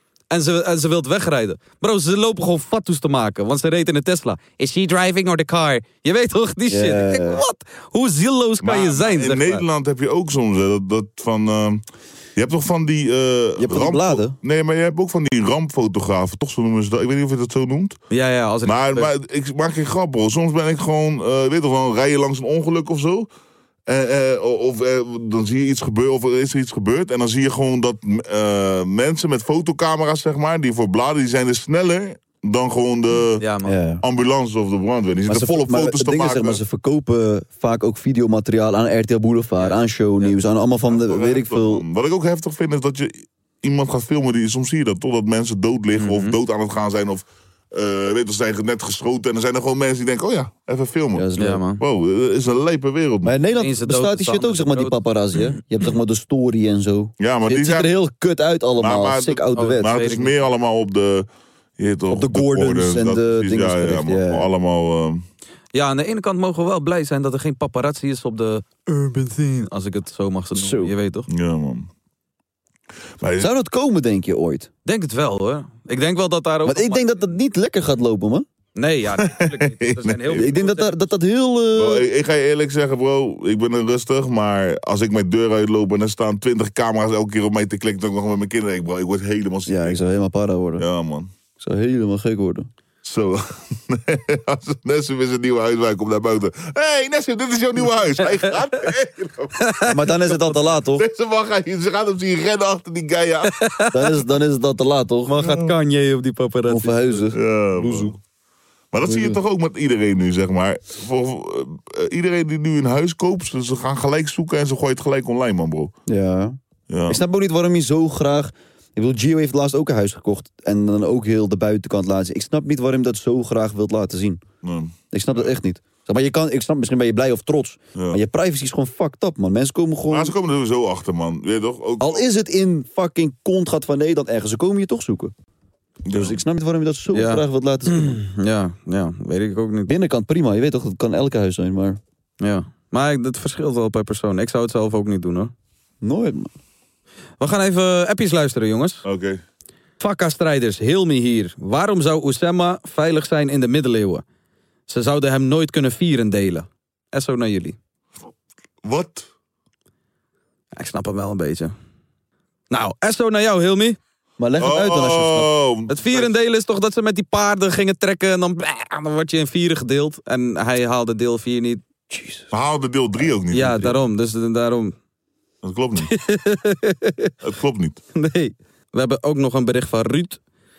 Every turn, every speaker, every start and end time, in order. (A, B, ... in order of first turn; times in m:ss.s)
0:00.3-0:09.6 A
0:06.7-0:07.4 B
0:08.6-0:11.8 C
0:12.4-0:18.0 C
0:13.6-0:14.4 B
0:18.1-0:19.1 A
0:18.6-0:23.3 C
0:23.9-0:33.4 C
0:33.4-0:33.7 A
0:33.6-0:34.0 B
0:34.0-0:36.6 C
0:35.3-0:41.8 B
0:39.6-0:40.4 A
0:40.9-0:51.3 C
0:46.0-0:46.4 A
0:51.1-0:51.6 B
0:51.4-0:51.8 A
0:51.8-0:53.3 C
0:53.2-1:00.0 B
0:53.6-0:55.0 A
0:57.2-0:57.9 C
0:58.8-1:05.3 C
0:59.5-1:00.3 A
1:02.1-1:04.5 B
1:05.7-1:11.3 A
1:10.5-1:10.9 B
1:11.3-1:11.9 C
1:13.2-1:13.5 C
1:13.4-1:14.7 B
1:14.9-1:17.0 A
1:16.7-1:18.5 B
1:18.8-1:21.0 A
1:19.2-1:20.5 C
1:20.3-1:22.0 B
1:21.8-1:30.0 C
1:29.7-1:30.9 B
1:30.8-1:31.3 C
1:31.6-1:32.7 B
1:33.0-1:39.7 C
1:39.6-1:40.0 A
1:39.9-1:41.1 B
1:41.0-1:43.6 C
1:43.6-1:44.2 A
1:43.9-1:45.4 B
1:45.3-1:47.3 A
1:45.4-1:45.7 C
1:46.7-1:48.0 B
1:47.3-1:48.2 C
1:47.8-1:48.1 A
1:48.9-1:55.9 C
1:49.0-1:49.4 B
1:56.1-2:04.4 B
1:56.9-1:57.2 C
2:04.6-2:05.5 C
2:05.1-2:10.4 B
2:10.1-2:12.2 C
2:12.0-2:15.3 B
2:16.1-2:16.4 C
2:16.1-2:18.2 B
2:17.1-2:19.9 A
2:19.9-2:22.0 B
2:22.4-2:25.5 A
2:26.0-2:26.5 B
2:27.4-2:29.0 A
2:29.0-2:29.4 C
2:30.0-2:34.2 A
2:34.9-2:37.8 A
2:38.8-2:39.3 C
2:40.7-2:41.7 A
2:42.7-2:44.0 A
2:44.4-2:45.5 B
2:44.6-2:46.3 C
2:45.9-2:51.8 A
2:52.1-2:52.5 B
2:52.5-2:53.9 C
2:53.5-2:55.0 A
2:55.6-2:56.1 C
2:56.0-2:57.3 A
2:57.4-2:58.0 C
2:58.2-3:00.4 A